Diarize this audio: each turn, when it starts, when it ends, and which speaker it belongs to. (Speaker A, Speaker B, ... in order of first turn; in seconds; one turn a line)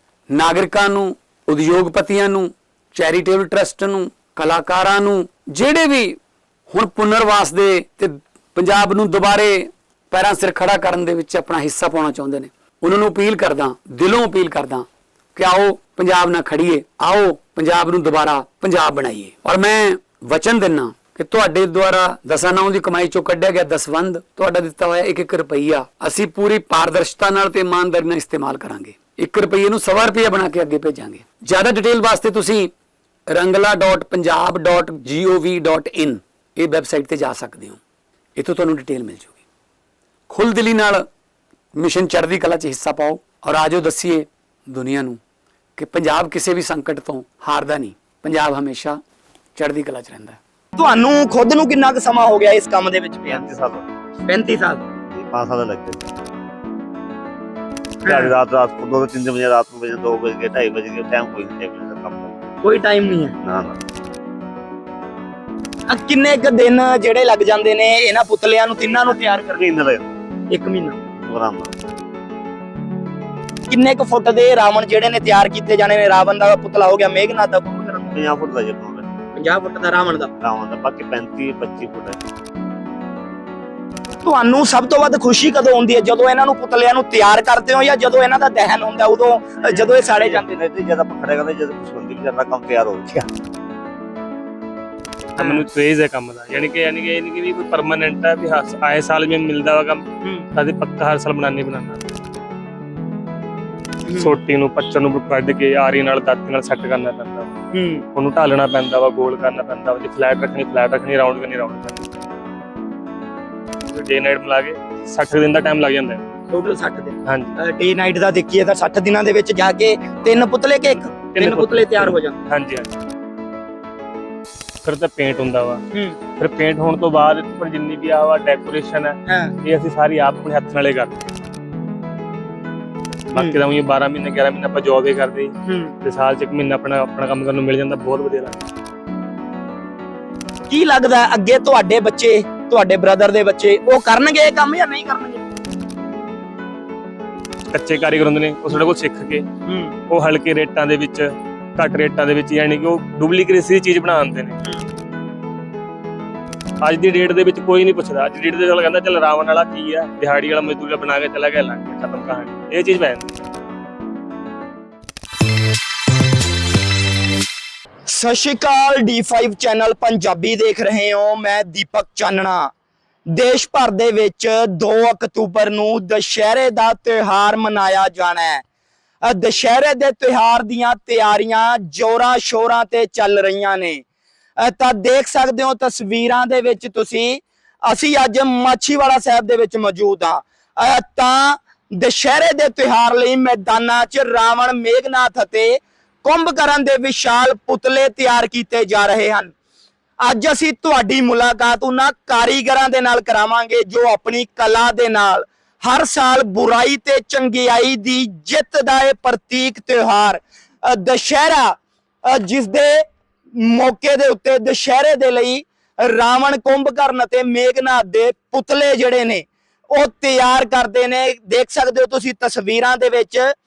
Speaker A: 0.3-32.7
Speaker A: 33.3-37.8
Speaker A: 38.4-39.4
Speaker A: 40.3-41.1
Speaker A: 41.8-45.2
Speaker A: 45.8-49.0
Speaker A: 49.5-50.4
Speaker B: 50.8-53.5
Speaker C: 53.3-53.9
Speaker B: 54.3-54.8
Speaker C: 55.1-56.0
Speaker B: 58.0-58.3
Speaker C: 58.0-62.4
Speaker B: 62.6-63.3
Speaker C: 63.4-63.8
Speaker B: 65.9-69.6
Speaker C: 68.9-70.2
Speaker B: 70.5-71.0
Speaker C: 71.2-71.7
Speaker B: 73.7-78.2
Speaker C: 78.1-79.1
Speaker B: 79.4-80.3
Speaker C: 80.4-82.2
Speaker B: 84.2-90.6
Speaker C: 89.6-93.3
Speaker D: 95.4-100.0
Speaker B: 95.4-95.7
Speaker D: 100.5-102.2
Speaker B: 104.1-104.3
Speaker D: 104.2-107.6
Speaker B: 107.7-108.0
Speaker D: 108.2-112.0
Speaker D: 113.9-116.2
Speaker B: 116.5-122.4
Speaker D: 117.2-117.6
Speaker D: 121.3-122.9
Speaker D: 124.8-125.8
Speaker B: 125.9-126.2
Speaker D: 126.4-131.2
Speaker B: 129.3-129.5
Speaker B: 133.3-133.6
Speaker D: 133.3-138.6
Speaker B: 135.7-135.9
Speaker B: 140.7-145.4
Speaker D: 147.7-149.4
Speaker B: 149.7-149.9
Speaker D: 150.1-154.6
Speaker D: 156.8-163.4
Speaker B: 168.1-172.7
Speaker B: 173.3-178.6
Speaker B: 179.2-184.0
Speaker B: 184.6-199.5
Speaker B: 200.2-223.5